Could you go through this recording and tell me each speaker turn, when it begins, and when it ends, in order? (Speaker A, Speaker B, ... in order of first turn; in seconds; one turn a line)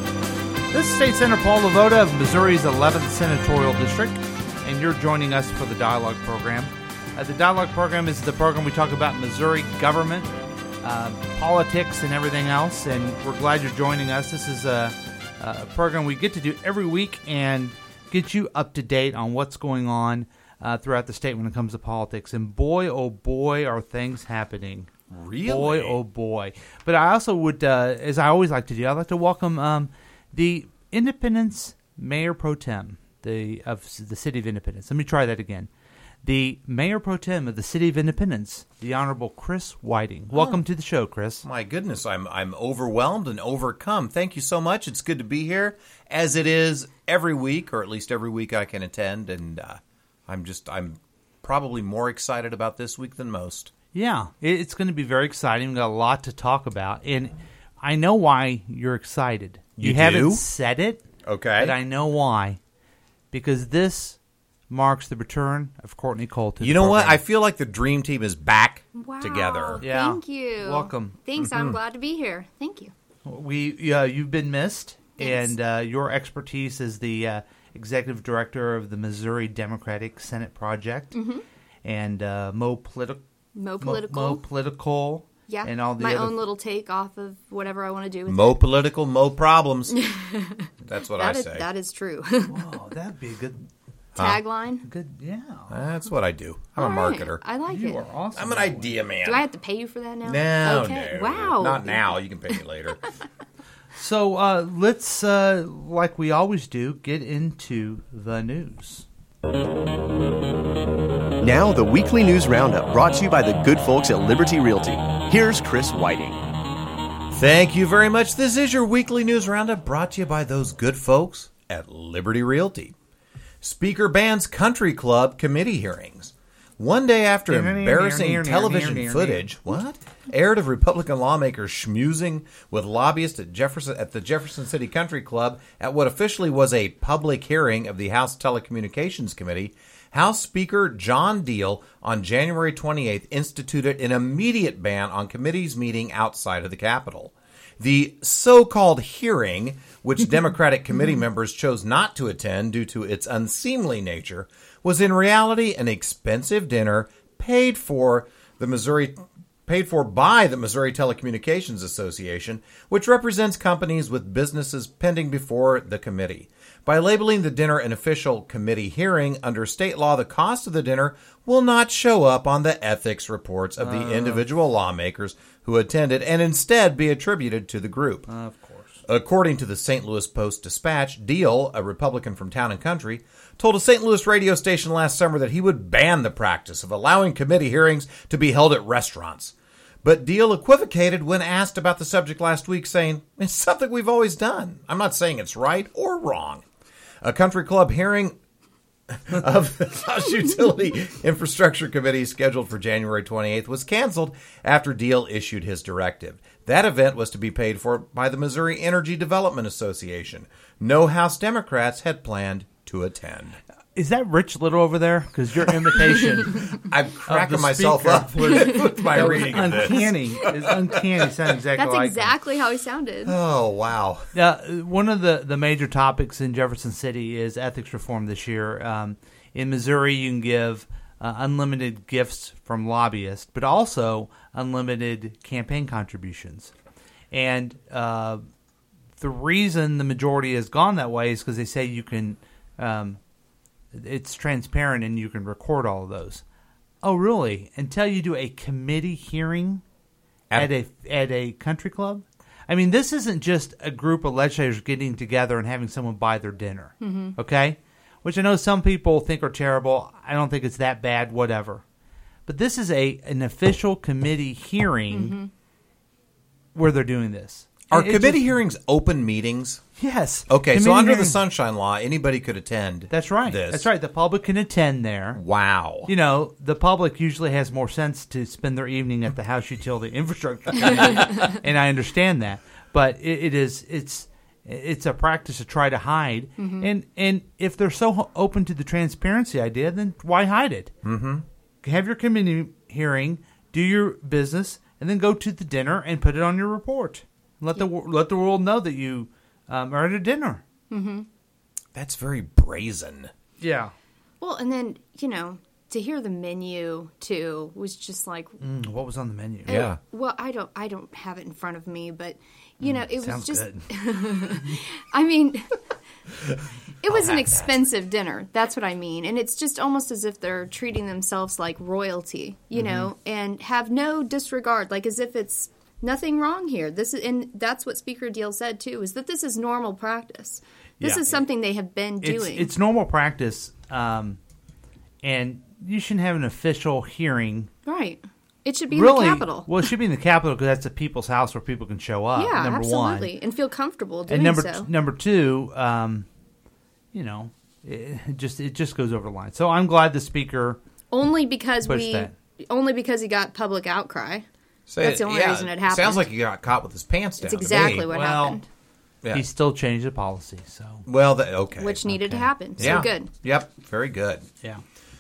Speaker A: 0.7-24.9
Speaker B: 25.1-26.0
Speaker A: 25.4-35.7
Speaker A: 36.2-41.4
Speaker B: 40.3-40.6
Speaker B: 41.4-53.7
Speaker A: 53.9-61.0
Speaker B: 59.8-60.4
Speaker B: 61.2-61.7
Speaker A: 61.6-62.6
Speaker A: 63.3-67.2
Speaker B: 66.6-69.8
Speaker C: 68.9-72.9
Speaker A: 69.8-71.2
Speaker B: 71.4-71.8
Speaker A: 73.2-81.2
Speaker C: 75.2-75.5
Speaker C: 81.1-81.4
Speaker A: 81.8-83.2
Speaker C: 83.5-84.4
Speaker A: 83.8-86.4
Speaker C: 85.5-88.6
Speaker B: 88.2-90.0
Speaker C: 89.9-92.6
Speaker B: 90.8-91.7
Speaker A: 92.5-93.7
Speaker B: 94.2-94.4
Speaker C: 94.2-94.8
Speaker A: 94.8-95.7
Speaker B: 95.7-97.4
Speaker C: 96.8-98.0
Speaker A: 97.7-98.9
Speaker B: 98.3-99.4
Speaker C: 99.2-102.6
Speaker B: 100.2-103.1
Speaker A: 104.0-109.0
Speaker D: 111.4-116.4
Speaker B: 117.3-122.9
Speaker B: 123.6-178.3
Speaker A: 127.5-129.5
Speaker A: 173.8-174.4
Speaker A: 178.3-179.0
Speaker B: 179.1-196.7
Speaker B: 197.2-198.4
Speaker B: 199.1-213.6
Speaker A: 213.9-222.3
Speaker B: 216.7-220.7
Speaker C: 218.5-219.1
Speaker C: 221.7-223.3
Speaker B: 223.2-224.3
Speaker A: 224.3-236.7
Speaker A: 237.3-238.4
Speaker A: 239.2-243.2
Speaker A: 243.9-246.4
Speaker A: 247.0-249.8
Speaker A: 250.6-261.8
Speaker C: 257.0-257.3
Speaker A: 262.4-265.4
Speaker C: 265.1-265.5
Speaker A: 266.7-268.5
Speaker B: 267.9-269.8
Speaker A: 270.0-271.4
Speaker B: 270.5-273.9
Speaker A: 273.1-275.4
Speaker B: 275.3-276.1
Speaker A: 276.1-290.9
Speaker B: 280.8-281.2
Speaker C: 286.6-286.9
Speaker B: 291.0-291.4
Speaker A: 291.8-300.6
Speaker C: 300.9-301.3
Speaker B: 301.9-303.3
Speaker A: 303.6-303.9
Speaker C: 304.4-308.6
Speaker A: 308.6-309.7
Speaker C: 309.6-315.8
Speaker B: 309.7-310.0
Speaker A: 313.1-313.9
Speaker C: 317.0-332.7
Speaker B: 317.1-317.6
Speaker B: 322.8-323.1
Speaker A: 331.0-331.4
Speaker A: 332.2-334.4
Speaker A: 335.2-337.7
Speaker C: 337.9-339.9
Speaker A: 338.9-343.3
Speaker C: 342.4-344.9
Speaker A: 344.3-346.3
Speaker A: 347.1-350.8
Speaker C: 351.1-354.4
Speaker A: 351.8-352.3
Speaker B: 354.9-358.1
Speaker C: 355.0-356.3
Speaker C: 357.4-358.6
Speaker A: 357.9-358.6
Speaker A: 359.3-361.0
Speaker B: 361.1-362.0
Speaker C: 361.8-363.3
Speaker A: 362.1-363.0
Speaker B: 362.8-364.5